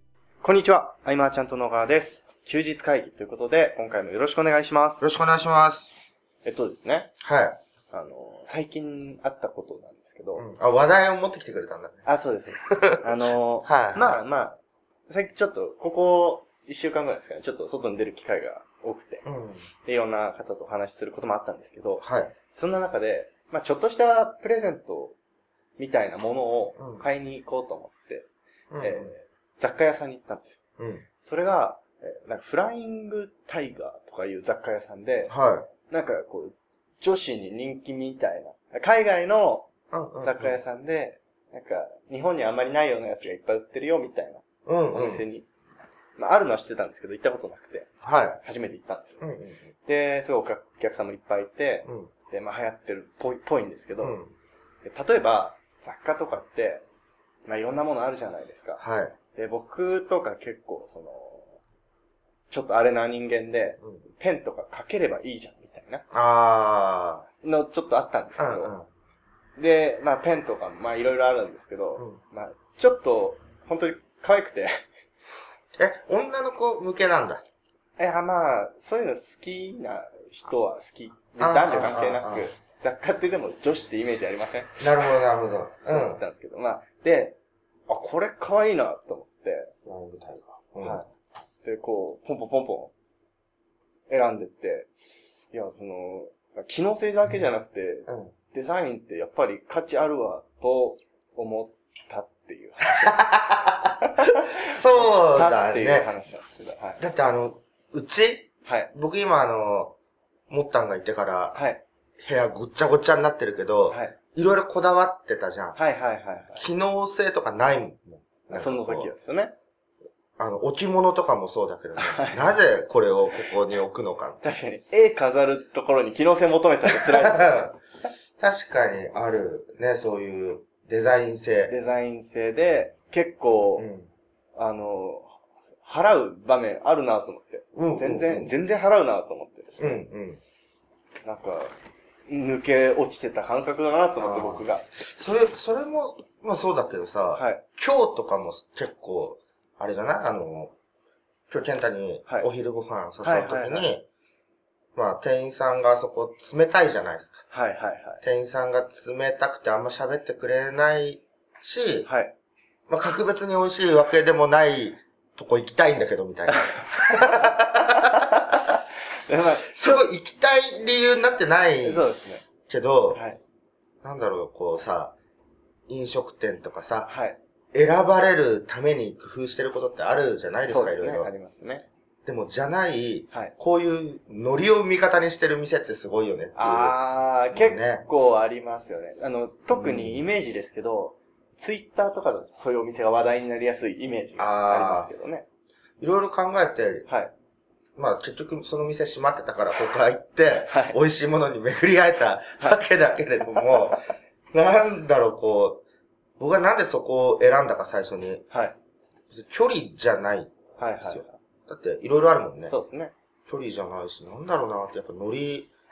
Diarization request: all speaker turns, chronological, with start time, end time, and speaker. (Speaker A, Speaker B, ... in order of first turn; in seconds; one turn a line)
Speaker A: 0.4-5.0
Speaker B: 5.0-5.9
Speaker A: 6.5-7.1
Speaker B: 7.2-7.6
Speaker A: 7.9-10.4
Speaker B: 10.3-12.1
Speaker A: 12.1-19.2
Speaker B: 12.7-13.1
Speaker B: 13.7-14.2
Speaker B: 19.2-19.6
Speaker A: 19.9-25.2
Speaker B: 22.0-22.3
Speaker A: 25.8-28.3
Speaker B: 26.8-27.1
Speaker B: 28.7-29.1
Speaker A: 28.8-30.6
Speaker B: 30.8-31.1
Speaker A: 31.2-35.3
Speaker B: 35.3-35.7
Speaker A: 35.9-39.7
Speaker B: 39.9-40.6
Speaker A: 40.2-45.5
Speaker B: 44.7-45.3
Speaker A: 46.2-47.9
Speaker B: 48.0-48.4
Speaker A: 48.4-49.3
Speaker B: 49.2-49.7
Speaker A: 49.9-54.2
Speaker B: 51.9-52.1
Speaker B: 54.0-54.3
Speaker A: 54.9-56.8
Speaker A: 57.5-58.8
Speaker B: 58.8-59.1
Speaker A: 59.3-61.6
Speaker A: 62.5-66.0
Speaker B: 66.1-67.3
Speaker A: 67.4-68.7
Speaker B: 68.4-68.9
Speaker A: 69.6-74.8
Speaker B: 75.8-77.5
Speaker A: 78.0-84.8
Speaker B: 81.4-82.5
Speaker B: 84.8-86.2
Speaker A: 85.8-87.4
Speaker A: 87.9-89.7
Speaker B: 89.9-91.0
Speaker A: 90.8-91.1
Speaker A: 91.6-92.9
Speaker A: 94.1-94.9
Speaker A: 95.5-103.2
Speaker B: 98.1-98.3
Speaker B: 103.0-104.0
Speaker A: 104.1-107.0
Speaker B: 104.6-106.1
Speaker B: 107.0-110.0
Speaker A: 108.7-108.9
Speaker B: 110.5-111.6
Speaker A: 111.5-111.8
Speaker B: 112.2-115.8
Speaker A: 113.9-114.2
Speaker A: 115.8-116.7
Speaker B: 116.5-119.1
Speaker A: 118.5-119.5
Speaker B: 120.4-124.4
Speaker A: 122.0-122.5
Speaker A: 124.4-127.7
Speaker B: 126.9-127.7
Speaker B: 128.4-131.7
Speaker A: 131.7-133.9
Speaker B: 133.8-134.1
Speaker A: 134.6-140.0
Speaker B: 137.8-138.5
Speaker B: 139.8-140.4
Speaker A: 141.2-141.7
Speaker A: 142.3-144.9
Speaker B: 144.2-150.7
Speaker A: 147.3-147.6
Speaker B: 151.5-154.1
Speaker A: 153.2-153.9
Speaker B: 154.9-157.4
Speaker A: 157.5-158.2
Speaker B: 158.2-162.1
Speaker A: 162.1-162.3
Speaker B: 162.9-168.6
Speaker A: 166.5-170.1
Speaker B: 169.6-172.1
Speaker A: 171.8-172.4
Speaker B: 172.7-173.2
Speaker A: 173.1-173.4
Speaker B: 174.0-175.2
Speaker B: 175.9-177.1
Speaker A: 177.1-177.4
Speaker B: 177.7-181.3
Speaker A: 180.7-181.9
Speaker B: 182.3-187.0
Speaker A: 186.6-195.5
Speaker B: 187.5-188.1
Speaker B: 189.7-190.3
Speaker B: 194.4-195.1
Speaker B: 196.0-197.1
Speaker A: 197.1-197.3
Speaker B: 198.0-205.8
Speaker A: 200.6-201.0
Speaker A: 203.5-203.9
Speaker B: 206.4-208.5
Speaker B: 209.3-212.7
Speaker A: 210.8-211.4
Speaker A: 212.7-213.1
Speaker B: 213.5-215.7